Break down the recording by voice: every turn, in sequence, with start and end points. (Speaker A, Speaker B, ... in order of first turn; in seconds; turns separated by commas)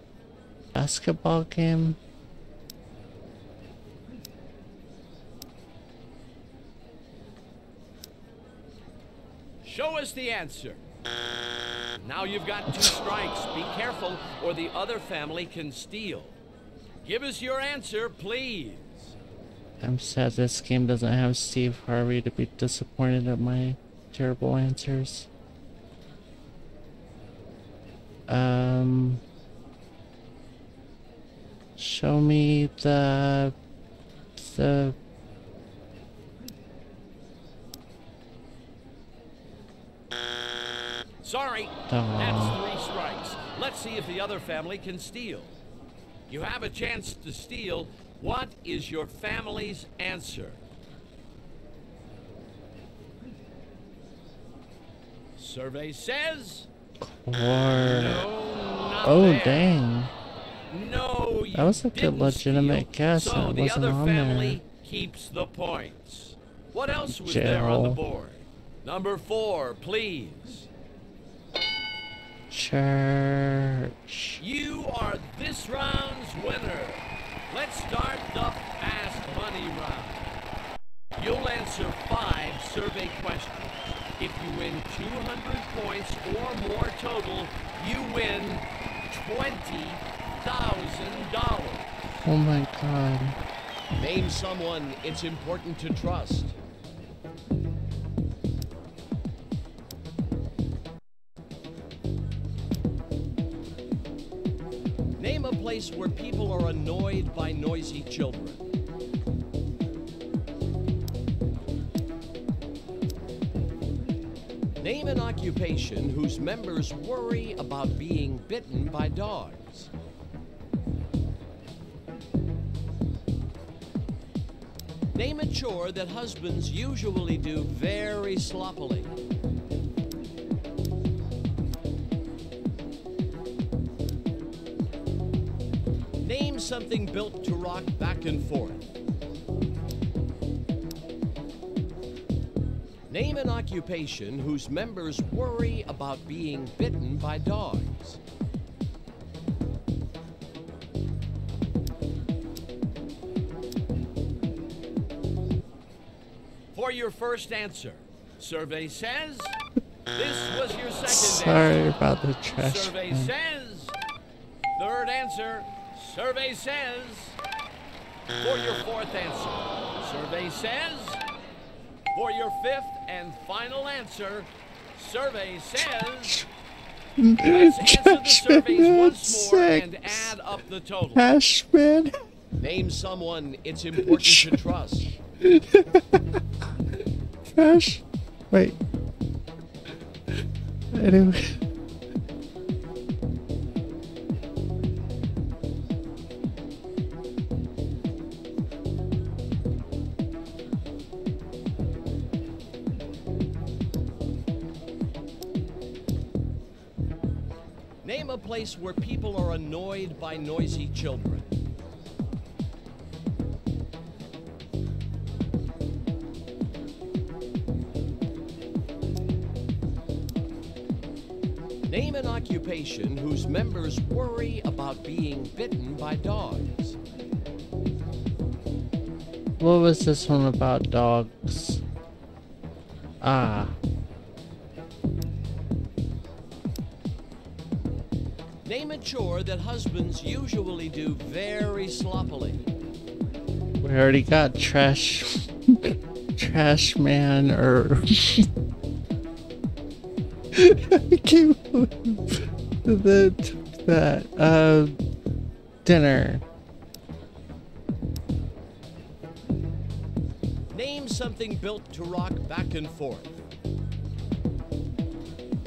Speaker A: 0.7-2.0, Speaker B: 9.6-10.8, Speaker B: 12.0-16.4, Speaker B: 17.0-19.1, Speaker A: 19.8-25.3, Speaker A: 28.3-29.2, Speaker A: 31.8-33.5, Speaker A: 34.4-35.0, Speaker B: 41.2-45.6, Speaker A: 41.9-42.6, Speaker B: 46.3-50.6, Speaker B: 55.4-56.7, Speaker A: 57.0-58.2, Speaker B: 57.8-59.7, Speaker A: 59.0-60.1, Speaker B: 60.7-70.7, Speaker A: 61.5-64.6, Speaker A: 67.1-68.0, Speaker A: 72.5-74.4, Speaker B: 74.4-80.3, Speaker B: 81.2-92.2, Speaker A: 92.2-93.4, Speaker B: 94.0-96.5, Speaker B: 105.2-108.7, Speaker B: 114.8-119.9, Speaker B: 125.1-129.2, Speaker B: 136.2-138.9, Speaker B: 143.1-148.2, Speaker B: 156.7-159.6, Speaker B: 160.1-161.9, Speaker A: 161.0-163.3, Speaker B: 162.6-163.9, Speaker B: 164.8-167.4, Speaker B: 168.4-171.2, Speaker B: 172.1-176.4, Speaker A: 175.8-176.5, Speaker A: 177.2-180.3, Speaker B: 177.4-181.3, Speaker A: 181.2-182.1, Speaker B: 182.6-185.1, Speaker A: 184.0-184.6, Speaker A: 185.4-186.4, Speaker A: 187.6-188.8, Speaker A: 190.9-191.6, Speaker B: 208.0-211.5, Speaker B: 221.9-227.0, Speaker A: 229.6-231.8, Speaker A: 233.2-233.8, Speaker B: 238.6-242.7, Speaker A: 243.8-248.5, Speaker A: 250.5-255.0, Speaker A: 255.8-256.4, Speaker B: 260.7-263.4